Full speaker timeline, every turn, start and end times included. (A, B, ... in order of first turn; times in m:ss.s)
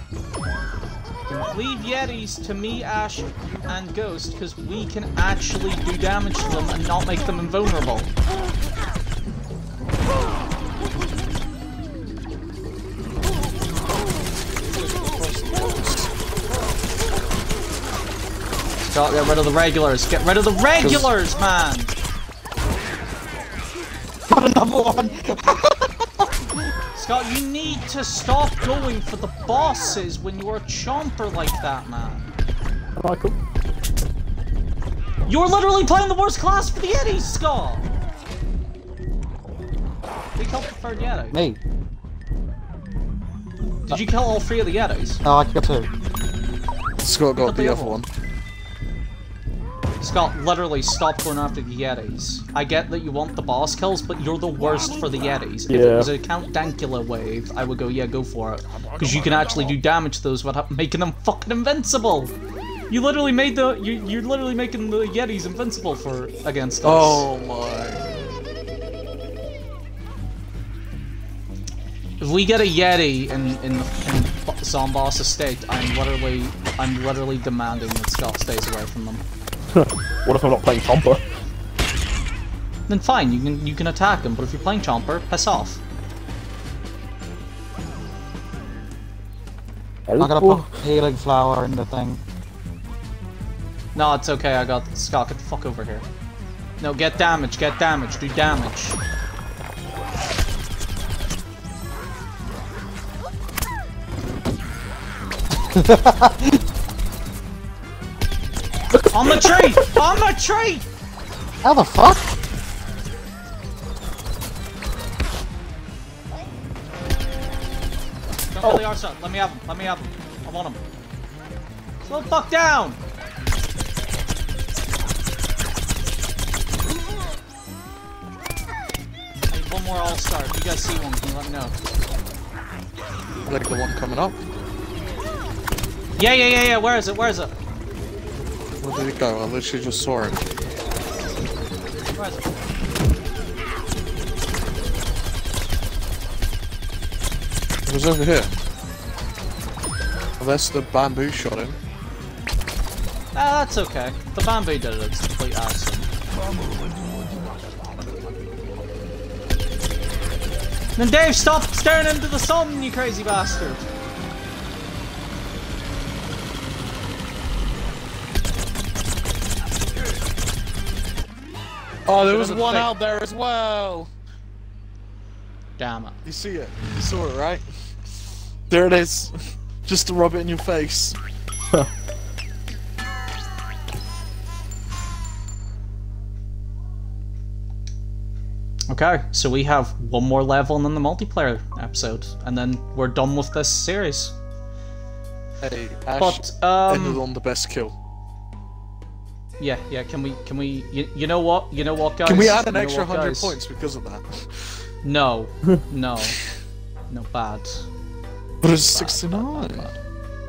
0:01.4-0:08.1 A
0:14.7-0:16.1 B
0:18.9-0:21.9 A
0:20.8-0:21.1 B
0:24.3-0:26.7 C
0:27.0-0:32.3 A
0:33.0-0:33.4 D
0:35.3-0:37.9 A
0:40.4-0:41.4 A
0:41.3-0:41.6 C
0:43.9-0:45.2 A
0:45.2-0:45.9 C
0:47.0-0:48.1 B
0:47.4-0:48.0 A
0:50.0-1:02.3 A
0:55.7-0:56.1 D
1:02.9-1:07.3 A
1:06.8-1:08.0 B
1:12.2-1:19.2 A
1:19.7-1:21.2 D
1:22.9-1:25.8 A
1:30.1-1:30.7 D
1:30.2-1:32.2 C
1:34.0-1:36.1 A
1:36.8-1:39.0 A
1:45.7-1:46.6 C
1:48.9-1:49.9 D
1:49.1-1:50.9 A
1:51.6-1:52.3 C
1:58.5-2:00.8 A
2:02.0-2:03.0 A
2:09.5-2:11.7 A
2:13.5-2:14.4 B
2:16.2-2:17.5 A
2:18.8-2:20.4 B
2:22.1-2:22.6 A
2:27.9-2:28.5 B
2:30.4-2:31.8 B
2:33.3-2:36.1 A
2:41.0-2:43.9 A
2:52.1-2:54.1 B
2:52.2-2:52.9 A
2:55.8-2:56.2 A
2:56.2-2:57.6 B
2:58.7-3:01.2 B
3:08.9-3:14.4 A
3:15.6-3:17.9 B
3:16.2-3:17.2 A
3:19.6-3:23.6 A
3:22.3-3:24.8 B
3:25.0-3:26.4 A
3:27.1-3:27.9 A
3:28.6-3:29.9 B
3:28.9-3:30.0 A